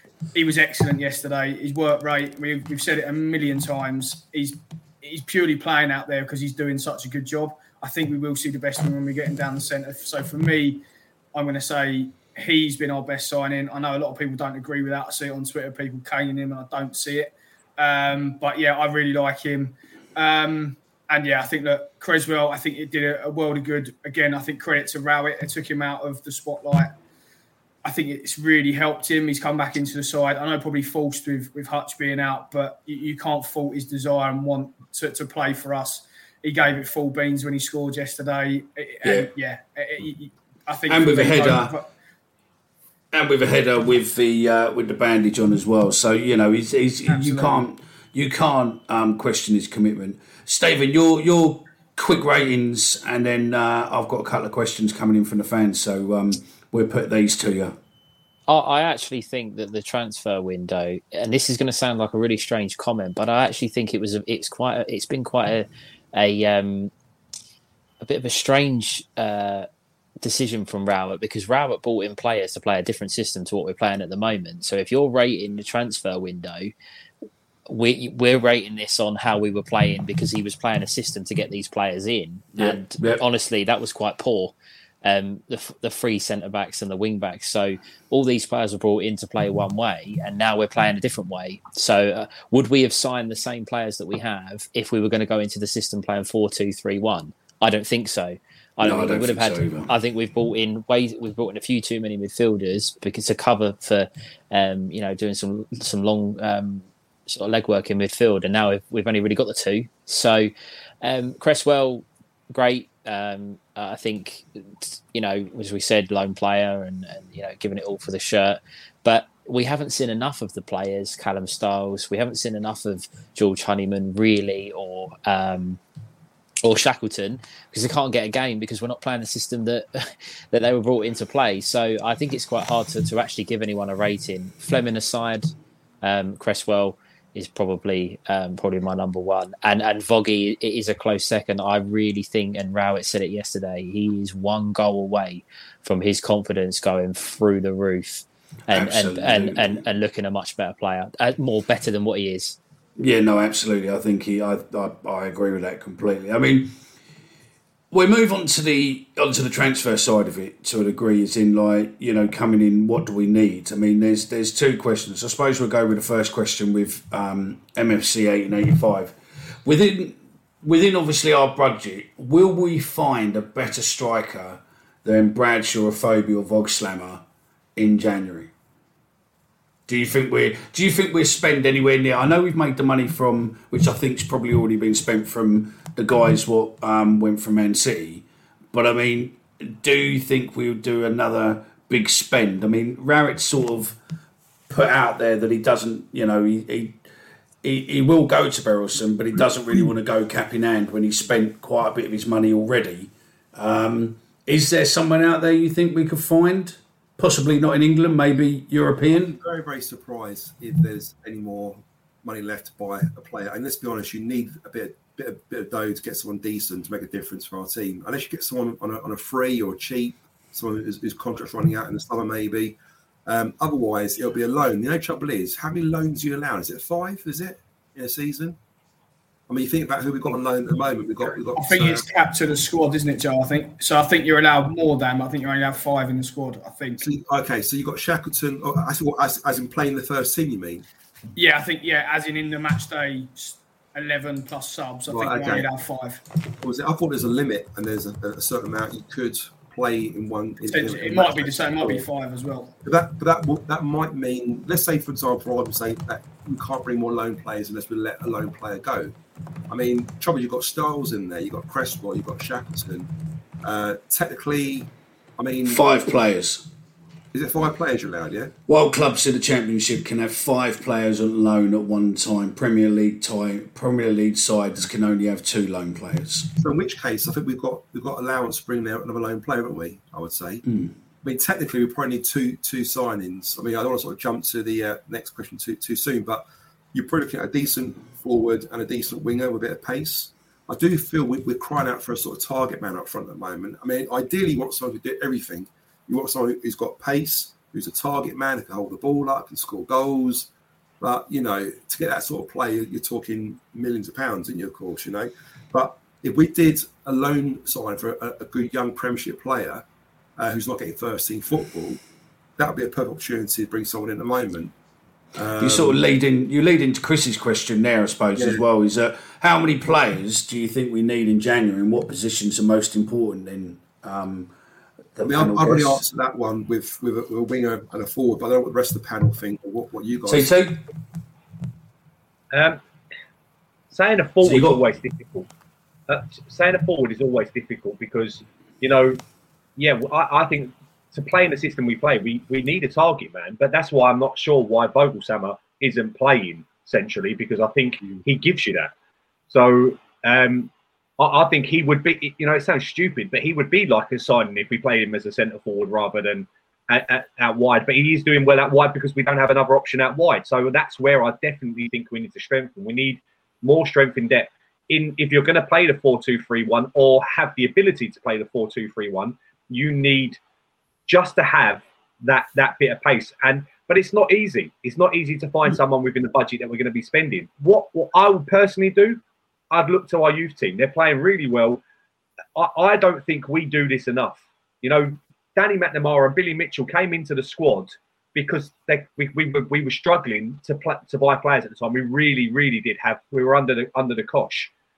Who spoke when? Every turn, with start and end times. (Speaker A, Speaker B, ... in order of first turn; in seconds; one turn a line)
Speaker A: 0.3-10.8
Speaker A: 11.3-26.9
Speaker A: 27.8-41.9
Speaker B: 39.0-39.3
Speaker B: 40.9-41.7
Speaker B: 43.1-57.8
Speaker A: 47.1-47.6
Speaker C: 58.5-66.9
Speaker C: 68.0-69.7
Speaker C: 70.2-76.7
Speaker C: 77.7-110.5
Speaker B: 82.5-83.2
Speaker B: 98.8-99.9
Speaker C: 111.0-125.8
Speaker C: 126.6-152.6
Speaker B: 148.7-149.8
Speaker B: 153.0-156.7
Speaker B: 157.9-177.2
Speaker B: 177.8-178.5
Speaker B: 179.9-194.0
Speaker B: 194.7-197.0
Speaker B: 197.6-209.3
Speaker D: 209.1-228.6
Speaker D: 229.5-232.1
Speaker A: 231.5-237.0
Speaker D: 237.0-240.8
Speaker A: 241.3-246.2
Speaker D: 245.1-245.7
Speaker D: 246.6-252.1
Speaker A: 250.7-252.7
Speaker D: 252.8-259.1
Speaker D: 259.7-263.1
Speaker D: 263.6-265.8
Speaker B: 265.7-266.6
Speaker D: 267.3-268.5
Speaker B: 268.7-276.5
Speaker D: 276.6-280.6
Speaker B: 280.6-280.9
Speaker D: 281.2-300.5
Speaker D: 301.0-309.8
Speaker D: 310.4-312.0
Speaker D: 312.6-314.7
Speaker D: 315.3-315.9
Speaker B: 315.6-324.5
Speaker D: 318.3-318.6
Speaker B: 325.1-326.0
Speaker D: 325.2-330.5
Speaker B: 330.3-330.8
Speaker E: 332.5-332.8
Speaker E: 333.9-335.5
Speaker B: 334.4-334.8
Speaker E: 336.1-339.2
Speaker E: 339.8-348.9
Speaker E: 349.5-370.4
Speaker E: 371.1-381.8
Speaker E: 382.6-394.7